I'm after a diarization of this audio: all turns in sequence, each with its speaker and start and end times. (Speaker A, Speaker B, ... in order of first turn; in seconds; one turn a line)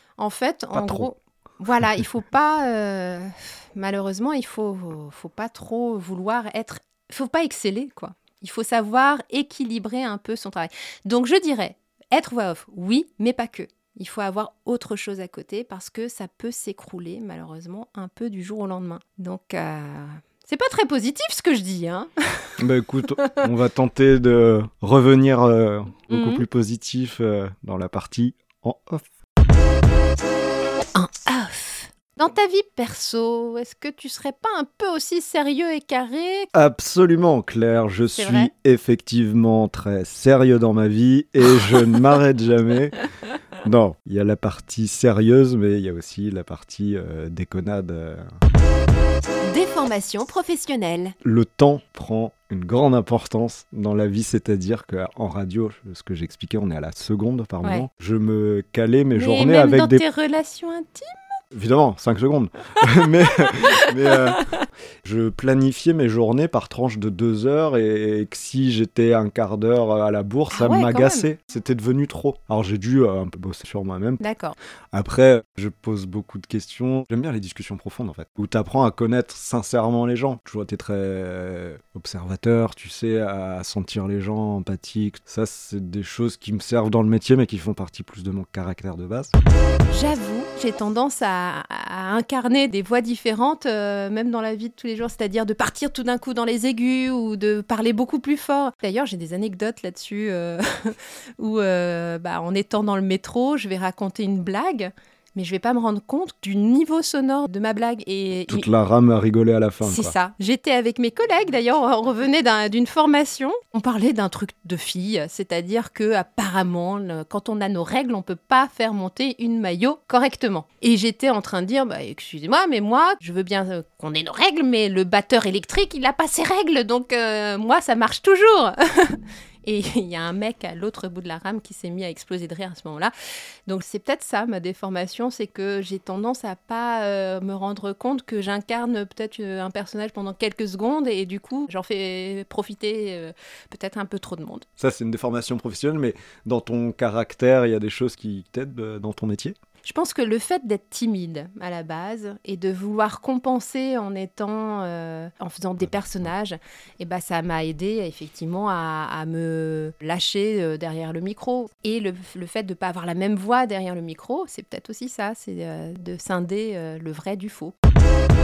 Speaker A: 0.2-22.6
Speaker B: 0.7-1.1
Speaker B: 22.6-29.1
Speaker A: 26.1-26.4
Speaker A: 30.9-36.5
Speaker B: 36.5-43.0
Speaker A: 38.2-38.5
Speaker B: 43.6-48.4
Speaker A: 49.4-51.2
Speaker B: 51.2-60.0
Speaker A: 59.1-61.4
Speaker B: 61.5-64.5
Speaker A: 62.8-64.6
Speaker B: 65.0-74.2
Speaker A: 70.5-71.3
Speaker A: 74.2-74.6
Speaker B: 74.9-89.3
Speaker A: 89.9-108.7
Speaker B: 108.5-110.1
Speaker A: 109.8-133.1
Speaker A: 133.7-144.7
Speaker B: 144.8-149.6
Speaker A: 149.8-167.8